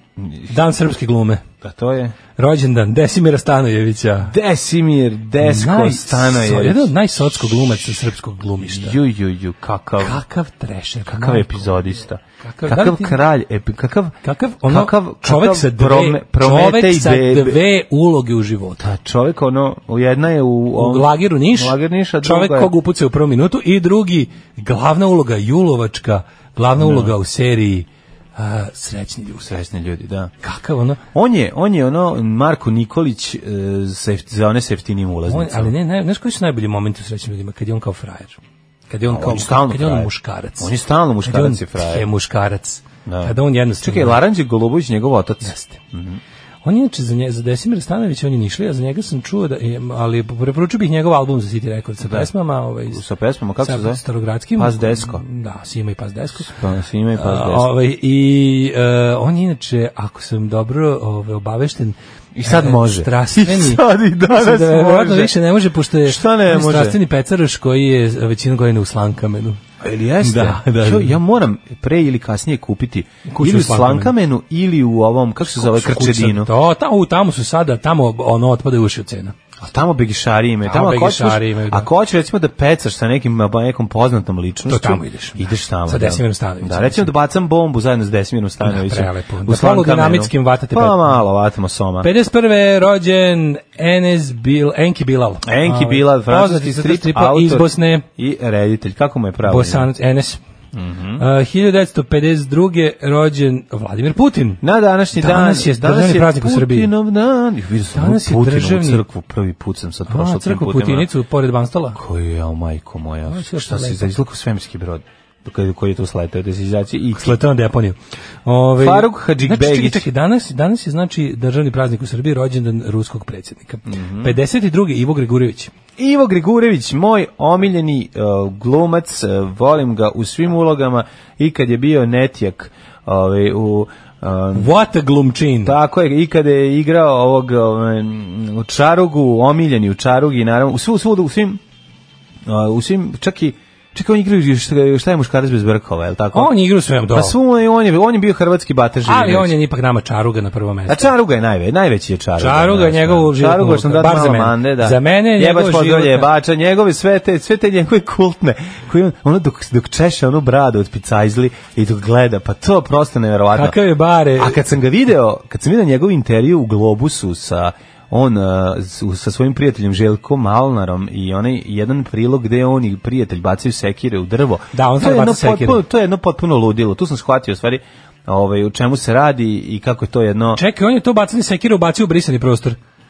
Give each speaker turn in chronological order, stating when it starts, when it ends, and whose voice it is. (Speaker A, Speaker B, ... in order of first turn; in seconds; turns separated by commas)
Speaker A: 0.2-0.5, Speaker B: 0.5-1.4, Speaker A: 1.6-2.1, Speaker B: 2.4-4.3, Speaker A: 4.2-6.9, Speaker B: 5.4-9.0, Speaker A: 8.6-10.2, Speaker B: 10.0-13.2, Speaker A: 11.1-17.6, Speaker B: 14.2-18.8, Speaker A: 18.8-22.7, Speaker B: 20.7-29.5, Speaker A: 26.8-27.1, Speaker A: 29.4-30.3, Speaker B: 30.4-31.0, Speaker A: 31.1-35.7, Speaker B: 35.3-38.4, Speaker B: 38.9-40.7, Speaker A: 39.1-42.1, Speaker B: 41.2-44.2, Speaker A: 43.0-46.2, Speaker B: 45.4-45.8, Speaker B: 46.6-53.0, Speaker A: 52.0-52.3, Speaker A: 52.9-54.0, Speaker B: 53.6-56.5, Speaker A: 54.5-55.2, Speaker A: 56.5-57.7, Speaker B: 57.1-69.6, Speaker A: 62.4-65.3, Speaker A: 66.0-67.0, Speaker A: 69.8-76.5, Speaker B: 70.2-71.2, Speaker B: 73.3-74.1, Speaker B: 75.5-79.3, Speaker A: 79.6-92.1, Speaker B: 80.7-81.9, Speaker B: 84.7-87.1, Speaker B: 88.6-91.2, Speaker B: 92.0-98.0, Speaker A: 95.4-99.9, Speaker B: 99.5-100.4, Speaker A: 100.7-101.2, Speaker B: 101.2-104.6, Speaker A: 104.6-111.1, Speaker B: 105.1-106.9, Speaker B: 107.9-109.0, Speaker B: 110.1-112.0, Speaker A: 111.9-117.4, Speaker B: 113.3-114.1, Speaker B: 117.2-125.7, Speaker A: 118.8-120.0, Speaker A: 123.8-124.4, Speaker A: 126.0-134.7, Speaker B: 134.5-135.8, Speaker A: 135.6-141.6, Speaker A: 142.4-146.5, Speaker B: 146.3-147.3, Speaker A: 147.1-149.6, Speaker B: 149.1-151.1, Speaker A: 150.9-163.8, Speaker B: 152.4-156.3, Speaker B: 163.5-164.6, Speaker A: 164.4-180.6, Speaker B: 174.7-175.8, Speaker B: 180.5-182.8